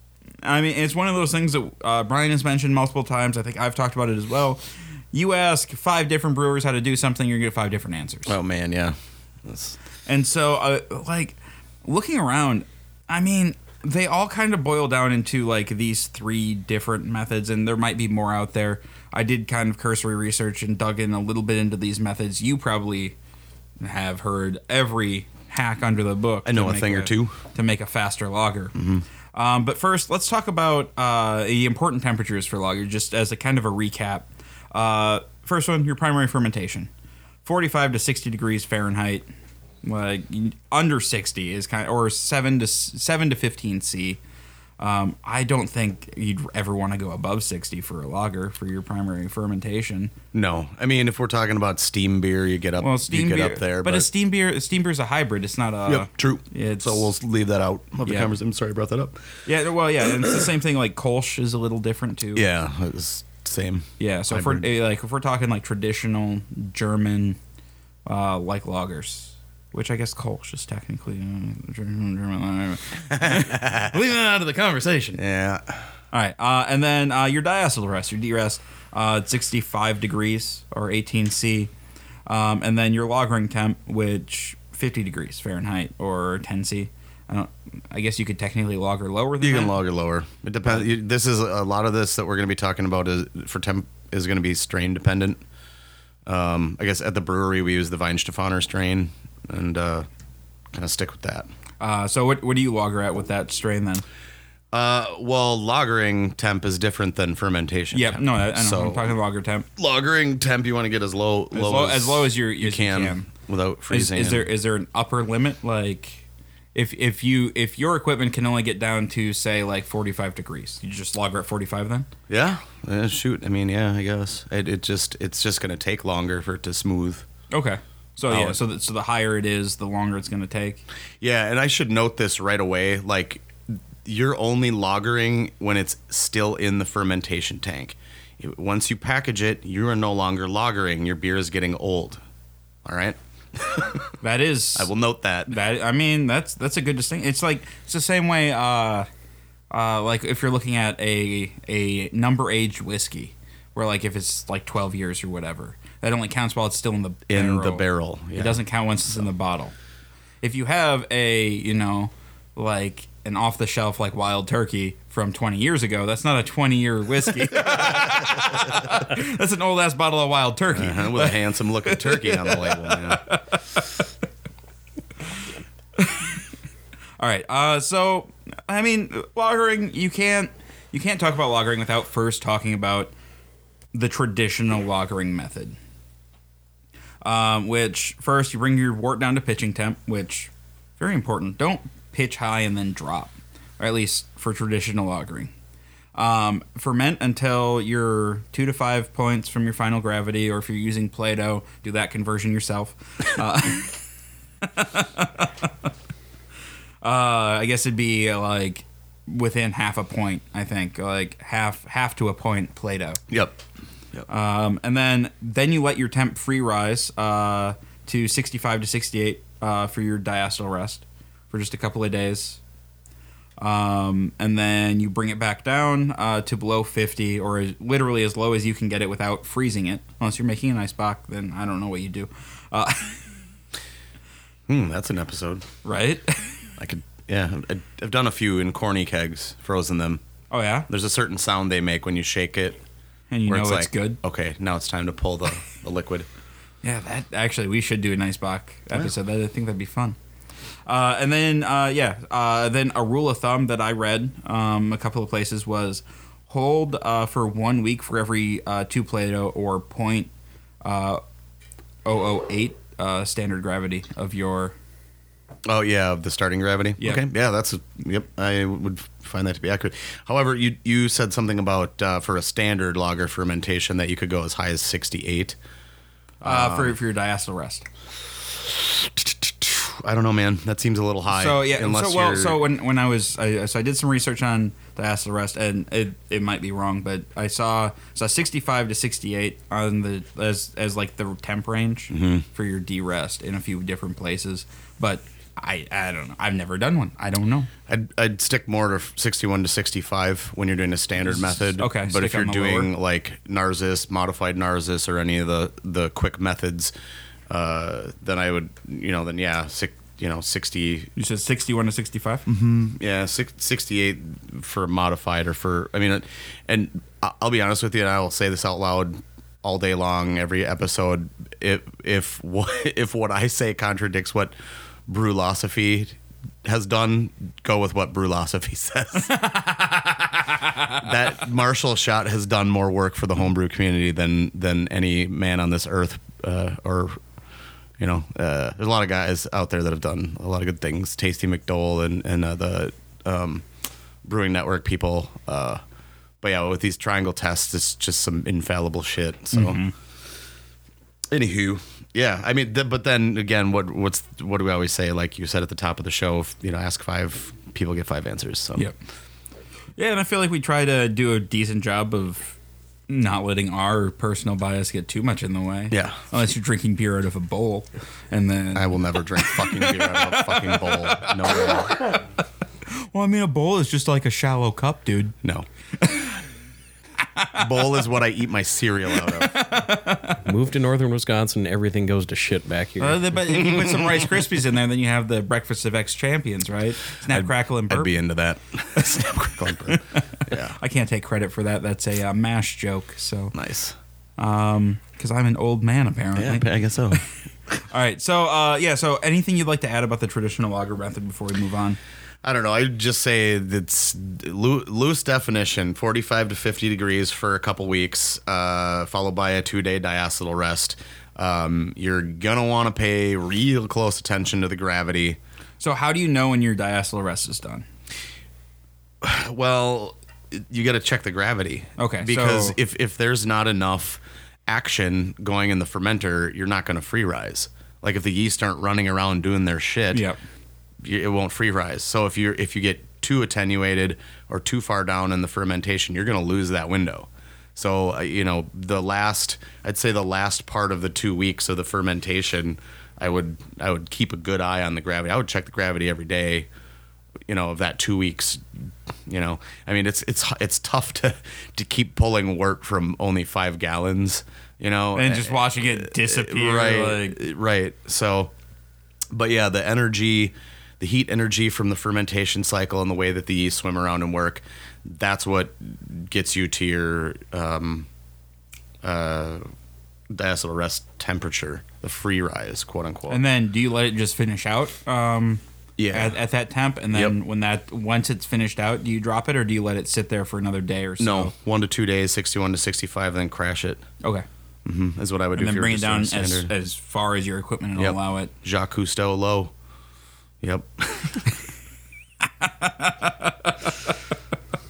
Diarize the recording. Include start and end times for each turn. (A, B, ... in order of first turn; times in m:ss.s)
0:00.4-0:08.4 A
0:08.3-0:09.8 B
0:10.0-0:23.2 A
0:23.8-0:28.8 A
0:26.4-0:27.4 B
0:28.7-0:29.0 B
0:29.3-0:36.9 A
0:37.4-0:39.3 A
0:39.8-0:44.2 A
0:44.8-0:50.1 A
0:50.3-0:54.1 B
0:52.8-0:57.1 A
0:55.8-0:59.4 B
0:58.0-0:58.3 A
0:59.4-1:02.4 A
1:02.3-1:04.6 B
1:04.0-1:07.4 A
1:08.0-1:15.2 A
1:13.1-1:13.9 B
1:15.2-1:15.9 B
1:16.1-1:21.7 A
1:22.3-1:29.8 A
1:29.4-1:35.4 B
1:36.2-1:40.1 B
1:40.7-1:41.5 B
1:41.8-1:44.0 A
1:44.7-1:49.1 B
1:47.9-1:49.7 A
1:49.8-1:54.5 B
1:51.5-1:53.3 A
1:53.9-2:02.1 A
2:02.3-2:07.2 B
2:07.5-2:10.8 A
2:08.3-2:08.6 B
2:11.2-2:22.2 B
2:22.8-2:24.2 B
2:24.2-2:24.9 A
2:24.8-2:25.6 B
2:25.5-2:29.1 A
2:29.7-2:39.7 A
2:37.3-2:38.6 B
2:40.4-2:54.1 A
2:47.6-2:48.9 B
2:50.7-2:53.3 B
2:56.0-2:56.4 A
2:57.2-3:03.1 A
3:03.9-3:05.8 A
3:07.2-3:15.5 A
3:16.2-3:24.1 A
3:24.6-3:25.7 A
3:27.0-3:33.2 A
3:33.3-3:33.6 B
3:34.3-3:42.6 A
3:43.6-3:53.4 A
3:54.7-3:55.7 B
3:55.8-3:56.7 A
3:56.8-4:00.2 B
4:00.5-4:00.9 A
4:00.9-4:02.8 B
4:03.3-4:04.2 A
4:03.5-4:06.3 B
4:06.8-4:10.2 A
4:10.8-4:20.3 A
4:20.8-4:21.2 A
4:22.0-4:24.7 A
4:25.6-4:35.6 B
4:36.4-4:37.8 A
4:36.4-4:37.0 B
4:38.5-4:42.6 B
4:41.3-4:57.7 A
4:52.1-4:52.4 B
4:57.9-5:06.9 B
5:01.3-5:02.9 A
5:07.5-5:11.1 B
5:11.2-5:12.4 A
5:12.4-5:24.5 B
5:25.1-5:29.4 B
5:29.2-5:31.1 A
5:30.9-5:37.2 B
5:38.0-5:43.7 B
5:44.2-5:45.8 B
5:46.4-5:49.8 B
5:49.5-5:49.9 A
5:51.3-5:58.9 B
6:00.0-6:02.6 A
6:03.1-6:12.2 A
6:05.9-6:06.2 B
6:08.7-6:12.1 B
6:12.9-6:15.4 A
6:16.0-6:16.4 A
6:17.4-6:17.6 A
6:17.5-6:19.5 B
6:19.1-6:20.4 A
6:20.4-6:23.4 C
6:23.0-6:28.1 A
6:23.6-6:24.1 B
6:27.3-6:30.8 B
6:29.9-6:33.5 A
6:33.5-6:34.0 B
6:34.4-6:42.0 A
6:36.4-6:37.2 B
6:42.4-6:55.4 B
6:55.8-6:57.8 A
6:59.2-7:10.2 B
7:02.0-7:02.8 A
7:10.1-7:10.4 A
7:11.0-7:26.7 B
7:27.5-7:38.5 B
7:35.1-7:37.4 A
7:39.3-7:48.1 B
7:49.0-7:49.6 B
7:50.3-7:53.4 B
7:53.3-8:01.5 A
7:56.0-7:56.4 B
8:01.2-8:04.0 B
8:04.8-8:06.7 B
8:05.5-8:08.5 A
8:08.0-8:09.7 B
8:10.6-8:11.5 B
8:12.4-8:14.2 A